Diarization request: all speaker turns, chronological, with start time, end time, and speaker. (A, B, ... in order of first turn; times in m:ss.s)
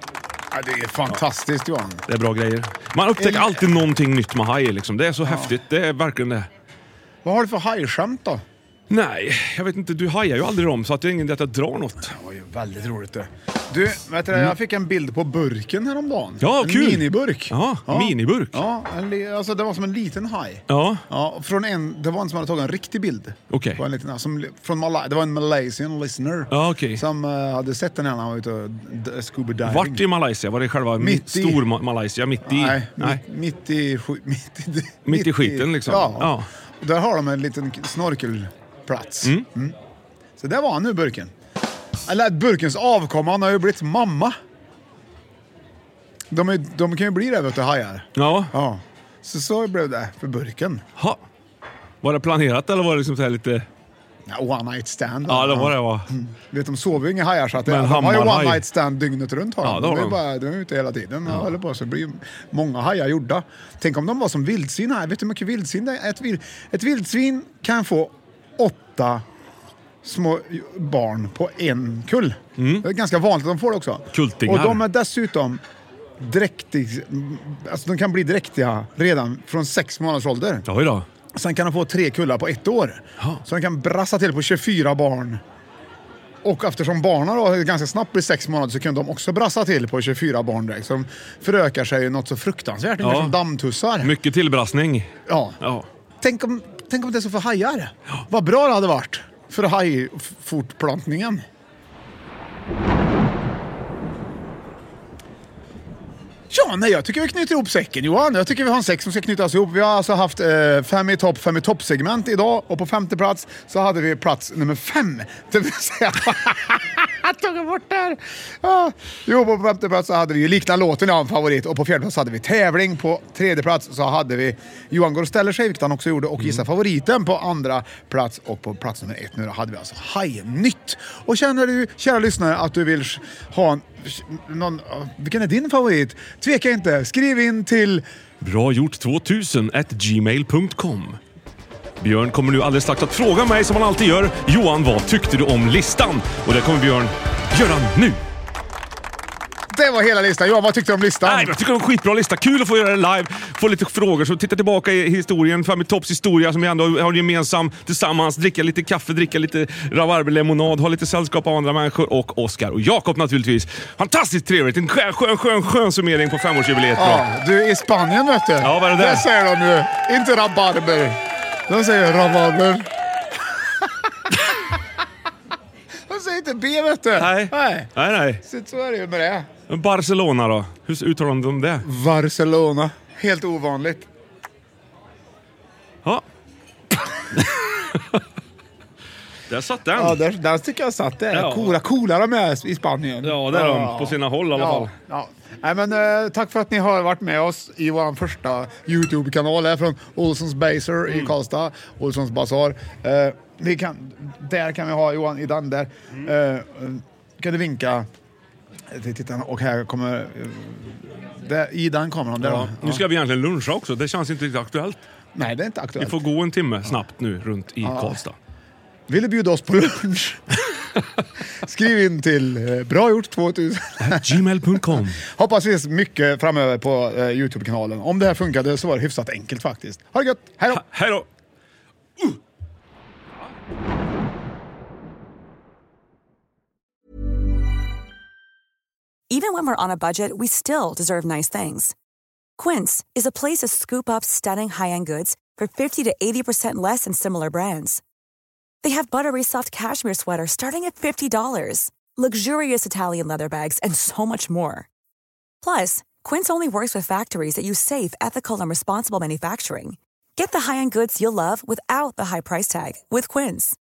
0:00.5-0:02.0 A
0:02.1-0:06.5 B
0:03.2-0:03.7 A
0:05.2-0:05.5 A
0:07.2-0:08.4 A
0:08.9-0:12.1 B
0:12.1-0:30.0 A
0:16.4-0:18.6 B
0:20.7-0:21.0 B
0:23.5-0:23.8 B
0:26.5-0:27.0 B
0:29.6-0:33.2 B
0:31.0-0:31.6 A
0:32.4-0:39.7 A
0:35.0-0:36.5 B
0:40.4-0:41.3 A
0:42.0-0:44.4 A
0:46.3-0:50.8 A
0:48.2-0:48.5 B
0:52.0-0:53.7 B
0:54.2-1:09.2 A
0:55.3-0:56.1 B
0:57.6-0:58.6 B
0:59.6-1:00.2 B
1:10.0-1:15.6 A
1:12.6-1:12.8 B
1:14.1-1:14.8 B
1:16.2-1:20.6 A
1:20.7-1:21.0 B
1:21.3-1:25.4 A
1:26.4-1:34.1 A
1:33.0-1:33.4 B
1:34.0-1:35.9 B
1:35.3-1:35.6 A
1:36.2-1:41.4 A
1:46.5-2:18.0 A
2:18.4-2:21.2 B
2:22.0-2:28.2 B
2:29.7-2:31.5 A
2:31.2-2:47.2 B
2:47.0-2:52.9 A
2:48.6-2:49.2 B
2:53.8-2:54.7 A
2:56.1-2:57.9 A
2:57.2-2:58.4 B
2:58.4-2:59.5 A
2:59.7-3:01.8 B
3:01.8-3:04.1 A
3:09.5-3:10.2 B
3:09.9-3:28.1 A
3:11.3-3:11.8 B
3:13.2-3:14.9 B
3:28.9-3:33.0 A
3:32.4-3:35.0 B
3:35.3-3:36.2 A
3:36.0-3:38.4 B
3:37.8-3:38.2 A
3:39.1-3:40.6 A
3:41.6-3:50.8 A
3:44.0-3:45.2 B
3:50.7-3:51.2 B
3:59.3-4:01.9 C
4:02.6-4:08.0 C
4:08.8-4:14.9 C
4:15.6-4:23.8 C